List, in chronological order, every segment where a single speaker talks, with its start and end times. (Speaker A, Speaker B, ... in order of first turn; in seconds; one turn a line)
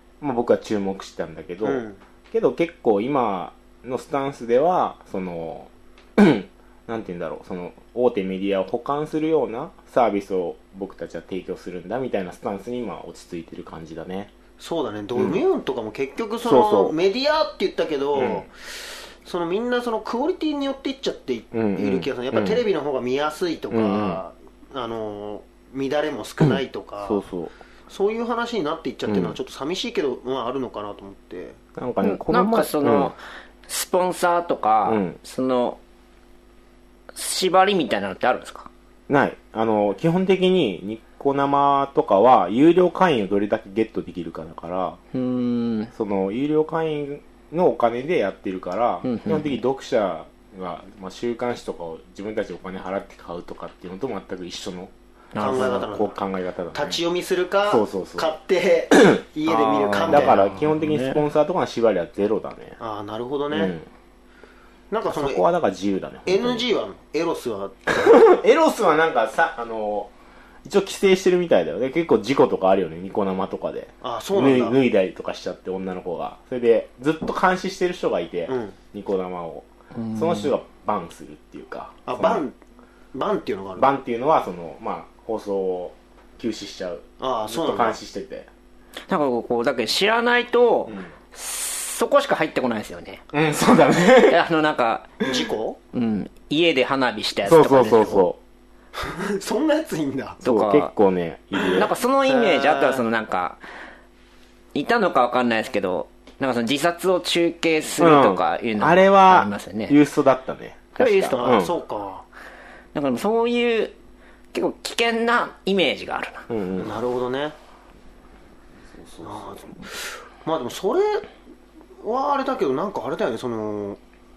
Speaker A: 0.2-14.3
Speaker B: 1.6-2.0
Speaker B: 14.6-18.5
Speaker A: 15.1-15.4
Speaker A: 16.4-16.9
Speaker A: 18.1-18.5
Speaker B: 19.2-27.2
Speaker A: 21.5-22.6
Speaker A: 23.7-24.2
Speaker A: 26.5-27.6
Speaker B: 27.9-31.6
Speaker A: 29.1-29.4
Speaker A: 31.8-33.1
Speaker C: 32.0-35.8
Speaker A: 34.9-35.2
Speaker C: 37.1-38.7
Speaker A: 39.1-45.0
Speaker C: 45.1-45.9
Speaker A: 45.9-54.9
Speaker C: 49.0-49.6
Speaker C: 55.3-55.8
Speaker B: 55.4-56.2
Speaker A: 55.4-57.0
Speaker B: 56.7-60.4
Speaker A: 57.7-58.3
Speaker A: 58.9-59.2
Speaker C: 59.5-61.2
Speaker A: 60.0-62.8
Speaker B: 62.8-63.7
Speaker A: 63.5-63.9
Speaker B: 64.9-65.4
Speaker A: 65.1-66.6
Speaker B: 66.2-68.2
Speaker A: 68.0-70.1
Speaker A: 70.6-82.4
Speaker B: 74.0-74.8
Speaker B: 78.5-78.8
Speaker C: 80.0-80.5
Speaker B: 82.0-82.5
Speaker B: 83.1-83.9
Speaker A: 83.8-88.5
Speaker B: 87.2-88.0
Speaker C: 89.1-93.2
Speaker A: 90.9-91.1
Speaker A: 93.3-94.4
Speaker C: 94.3-95.2
Speaker B: 95.2-95.8
Speaker C: 95.9-98.2
Speaker A: 97.4-98.4
Speaker B: 99.0-100.4
Speaker C: 100.4-100.9
Speaker A: 100.4-101.9
Speaker B: 101.6-103.0
Speaker C: 101.8-103.6
Speaker C: 104.7-110.0
Speaker A: 108.0-111.7
Speaker C: 111.0-111.5
Speaker B: 111.3-112.2
Speaker C: 112.9-113.9
Speaker C: 114.5-116.5
Speaker A: 116.5-117.0
Speaker B: 116.8-117.5
Speaker A: 118.9-119.6
Speaker B: 119.2-121.3
Speaker B: 122.0-124.0